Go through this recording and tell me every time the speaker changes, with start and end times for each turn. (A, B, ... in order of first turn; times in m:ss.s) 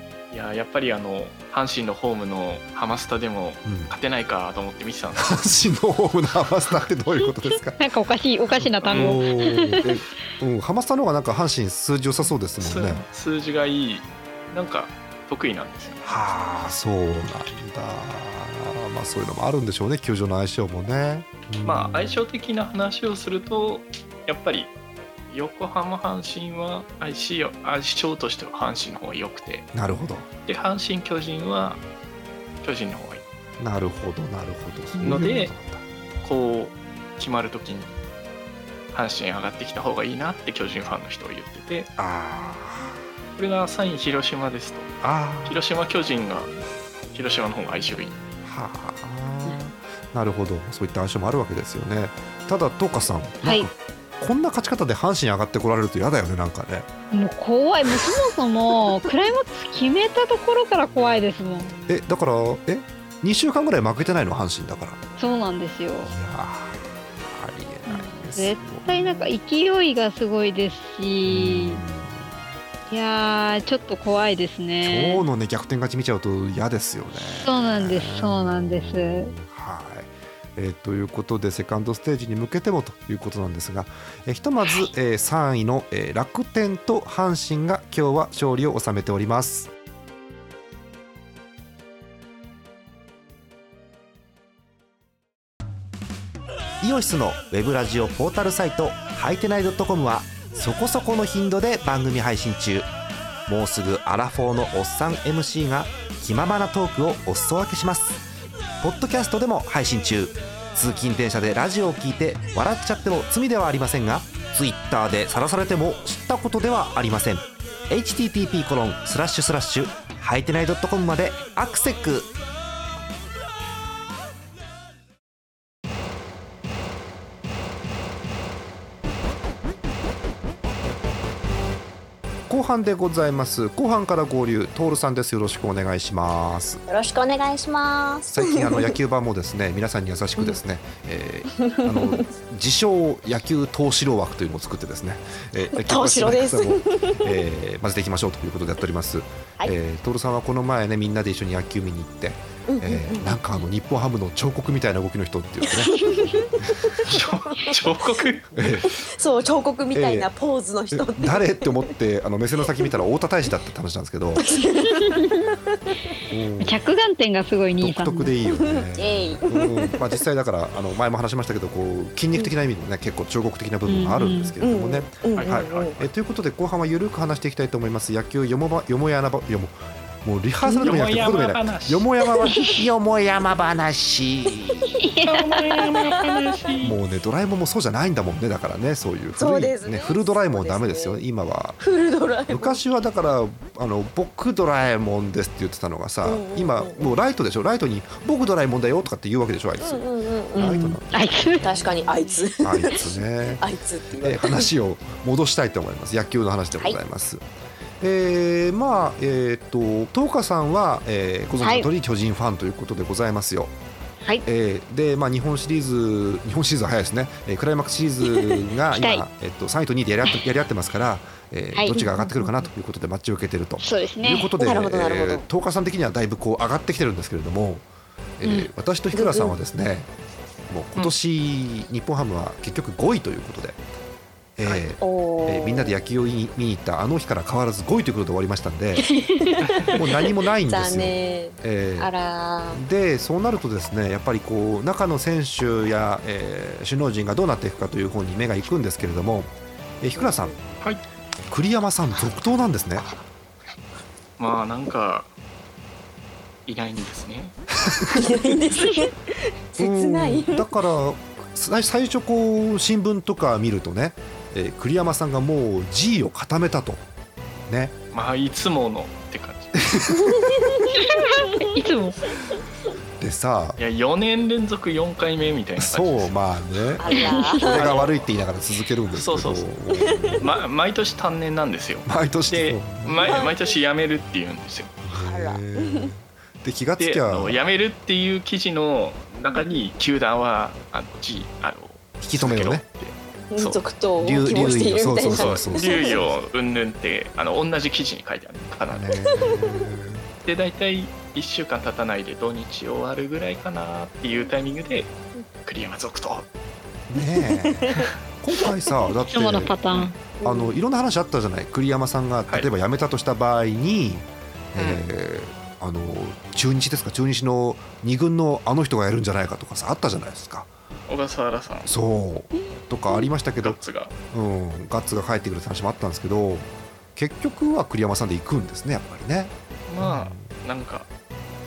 0:00.3-0:05.5 A
0:03.6-0:03.9 B
0:05.2-0:07.8 B
0:07.8-0:09.9 C
0:08.8-0:09.2 A
0:08.8-0:13.0 B
0:12.6-0:16.1 A
0:16.0-0:22.2 B
0:21.6-0:24.7 A
0:25.3-0:29.7 A
0:29.7-0:30.3 B
0:30.5-0:31.8 A
0:32.6-0:33.2 A
0:33.6-0:35.8 B
0:35.0-0:35.3 C
0:35.0-0:35.5 A
0:36.2-0:37.9 A
0:38.9-0:41.9 A
0:42.0-0:43.0 B
0:43.4-0:44.9 A
0:45.0-0:45.6 B
0:45.4-0:46.5 A
0:47.1-0:48.2 A
0:48.4-0:56.9 B
0:57.1-1:01.7 C
1:01.9-1:05.0 B
1:05.2-1:06.1 C
1:06.0-1:09.2 B
1:07.9-1:11.8 C
1:11.2-1:12.4 B
1:12.9-1:15.2 C
1:14.8-1:29.7 B
1:17.2-1:19.3 C
1:36.8-1:42.9 B
1:43.5-1:48.2 B
1:48.8-2:02.3 B
2:12.5-2:16.8 B
2:16.9-2:19.0 D
2:18.3-2:36.0 B
2:21.6-2:22.2 D
2:25.7-2:27.4 D
2:32.7-2:33.4 D
2:35.6-2:38.3 D
2:36.6-2:37.1 B
2:37.0-2:38.9 A
2:38.5-2:39.1 B
2:38.9-2:41.9 D
2:39.9-2:40.3 B
2:40.9-2:44.5 B
2:44.4-2:46.0 D
2:44.9-2:45.5 C
2:46.3-2:46.8 B
2:46.6-2:48.3 C
2:47.8-3:05.0 B
2:48.4-2:50.2 D
2:53.9-2:54.6 C
2:54.6-2:56.0 D
2:55.4-2:56.0 A
3:00.8-3:02.1 A
3:02.5-3:02.8 C
3:05.0-3:06.3 C
3:05.2-3:07.0 A
3:06.8-3:11.8 B
3:09.4-3:11.2 D
3:11.8-3:12.8 D
3:12.5-3:21.7 B
3:16.2-3:17.1 D
3:19.8-3:20.9 D
3:20.6-3:21.9 C
3:21.6-3:24.7 D
3:22.6-3:23.6 B
3:24.2-3:27.4 B
3:28.0-3:33.7 B
3:31.6-3:31.9 C
3:34.4-3:47.8 B
3:38.9-3:39.2 C
3:41.7-3:42.2 C
3:43.8-3:44.5 C
3:44.6-3:45.4 D
3:48.4-3:50.1 B
3:48.4-3:48.7 C
3:49.1-3:49.6 D
3:50.7-3:53.8 B
3:54.6-3:59.1 B
3:55.0-3:56.0 D
3:59.0-4:02.8 D
3:59.9-4:02.1 B
4:02.7-4:10.6 B
4:10.1-4:10.6 D
4:11.5-4:13.1 B
4:14.4-4:15.3 A
4:16.6-4:17.6 A
4:17.7-4:18.3 B
4:18.1-4:20.7 D
4:19.8-4:27.0 B
4:27.7-4:27.9 B
4:28.1-4:29.9 A
4:29.8-4:30.6 B
4:30.1-4:31.0 D
4:30.9-4:32.3 C
4:33.2-4:33.8 B
4:33.8-4:36.4 A
4:35.8-4:40.5 B
4:37.0-4:38.1 D
4:37.1-4:37.7 C
4:37.7-4:38.2 A
4:39.1-4:39.7 A
4:39.9-4:40.5 D
4:40.4-4:44.9 A
4:42.0-4:43.3 B
4:43.2-4:43.8 D
4:45.0-4:47.6 B
4:45.1-4:46.1 D
4:47.0-4:53.8 A
4:49.5-4:49.8 D
4:52.2-4:52.8 B
4:53.5-4:56.3 D
4:54.2-4:56.3 B
4:55.2-4:59.2 A
4:58.9-5:00.3 B
4:59.3-4:59.9 D
5:00.4-5:06.5 A
5:07.1-5:09.7 B
5:07.2-5:08.1 D
5:09.2-5:10.1 C
5:09.8-5:10.1 A
5:10.4-5:10.8 D
5:10.4-5:20.7 B
5:14.8-5:15.0 A
5:21.1-5:21.9 A
5:21.8-5:23.8 B
5:22.5-5:23.3 C
5:23.6-5:24.1 A
5:24.3-5:30.5 B
5:29.9-5:31.1 A